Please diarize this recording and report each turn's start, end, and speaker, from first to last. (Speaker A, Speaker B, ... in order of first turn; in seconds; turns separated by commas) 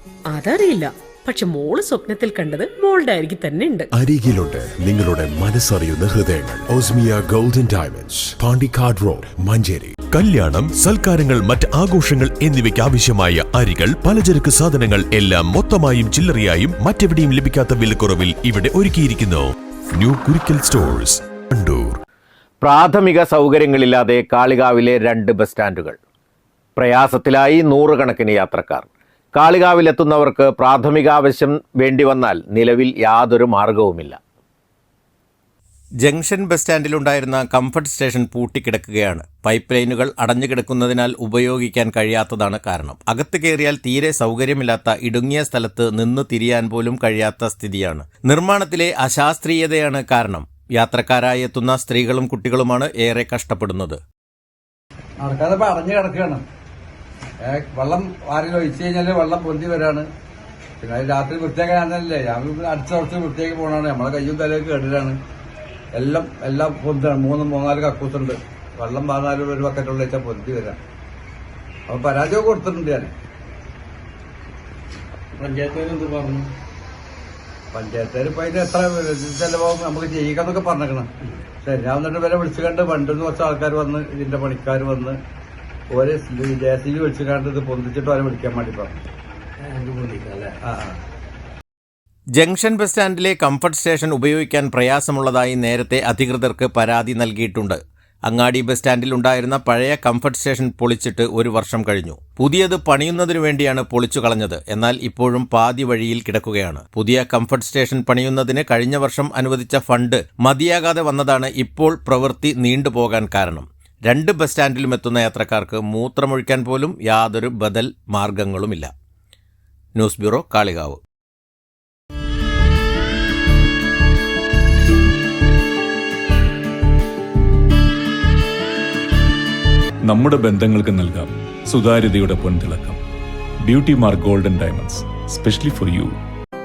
Speaker A: 0.3-3.9, Speaker B: 4.0-8.3, Speaker C: 8.3-22.0, Speaker D: 22.6-26.0, Speaker D: 26.8-34.2, Speaker D: 36.0-54.0, Speaker E: 55.2-56.4, Speaker E: 57.4-60.0, Speaker E: 60.8-65.2, Speaker E: 65.9-70.8, Speaker E: 71.9-73.1, Speaker E: 77.7-81.1, Speaker E: 81.6-85.2, Speaker E: 85.9-89.0, Speaker D: 92.3-118.9, Speaker D: 120.0-121.0, Speaker F: 130.1-133.0, Speaker F: 133.7-136.1